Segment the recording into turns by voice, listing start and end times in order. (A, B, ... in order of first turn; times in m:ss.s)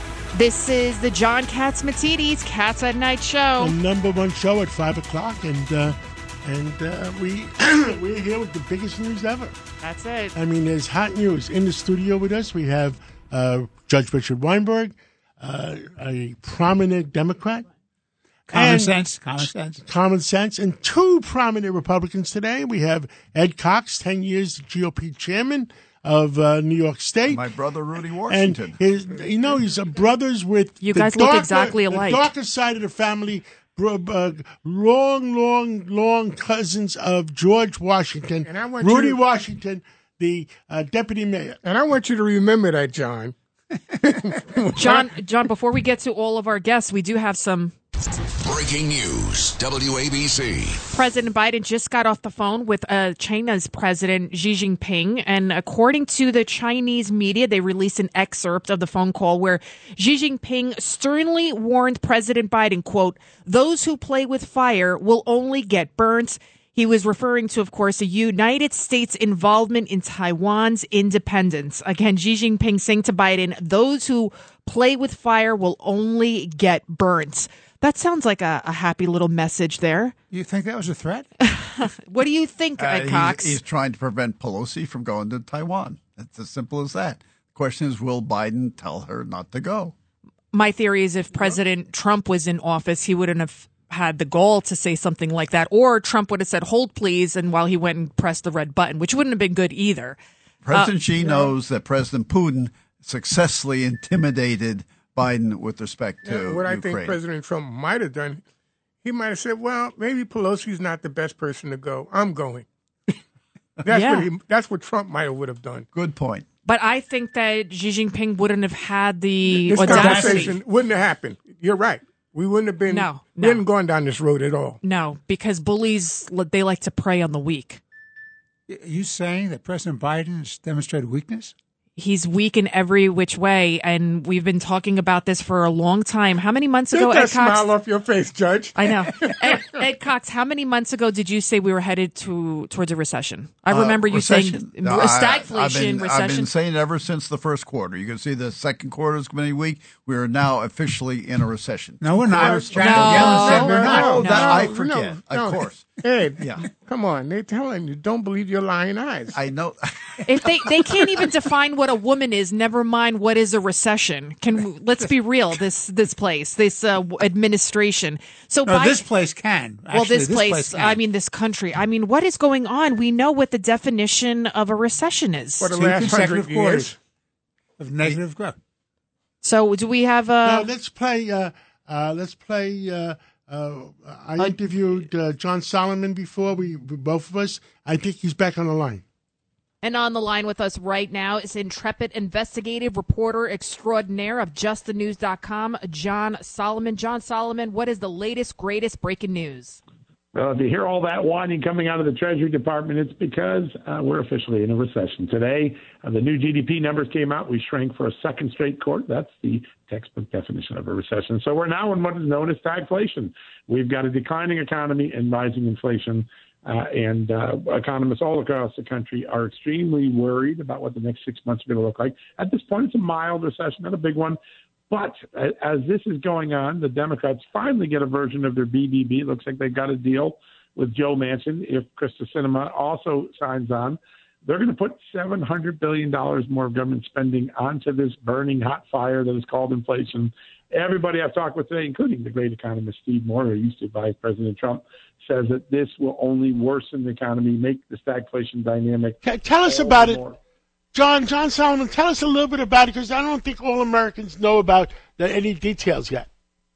0:00.3-0:03.8 A
0:03.6-0:09.6 B
0:09.8-0:10.4 A
0:10.4-0:17.7 B
0:18.5-0:19.8 C
0:18.5-0:27.4 B
0:27.3-0:28.8 D
0:28.3-0:41.6 B
0:30.8-0:32.3 A
0:38.4-0:39.2 E
0:41.6-0:43.4 E
0:44.0-0:45.1 E
0:44.8-0:47.8 A
0:48.4-0:50.8 F
0:50.9-1:20.1 A
1:20.3-1:21.3 C
1:21.5-1:23.6 A
1:22.8-1:30.0 D
1:30.5-1:40.2 A
1:40.6-1:47.2 D
1:40.7-1:41.5 A
1:46.2-1:48.4 E
1:49.0-1:53.2 E
1:53.8-1:55.9 E
1:53.9-1:54.3 A
1:55.9-1:56.4 D
1:56.6-2:00.6 A
1:59.6-2:04.8 E
1:59.7-2:00.6 C
2:02.9-2:03.6 A
2:04.8-2:07.8 A
2:08.7-2:11.5 C
2:12.0-2:17.7 A
2:16.9-2:19.6 E
2:18.8-2:26.5 A
2:23.7-2:36.6 D
2:32.0-2:34.7 C
2:32.4-2:39.4 E
2:32.8-2:34.7 A
2:39.3-2:40.1 D
2:40.3-2:49.0 A
2:48.7-2:51.0 C
2:49.9-2:55.7 A
2:55.6-2:57.0 E
2:55.7-2:56.9 C
2:57.8-2:58.6 C
2:59.4-3:00.7 A
3:00.4-3:09.0 B
3:09.8-3:19.8 A
3:20.3-3:44.4 G
3:44.9-4:10.4 G
4:09.2-4:10.2 B
4:10.9-4:16.3 B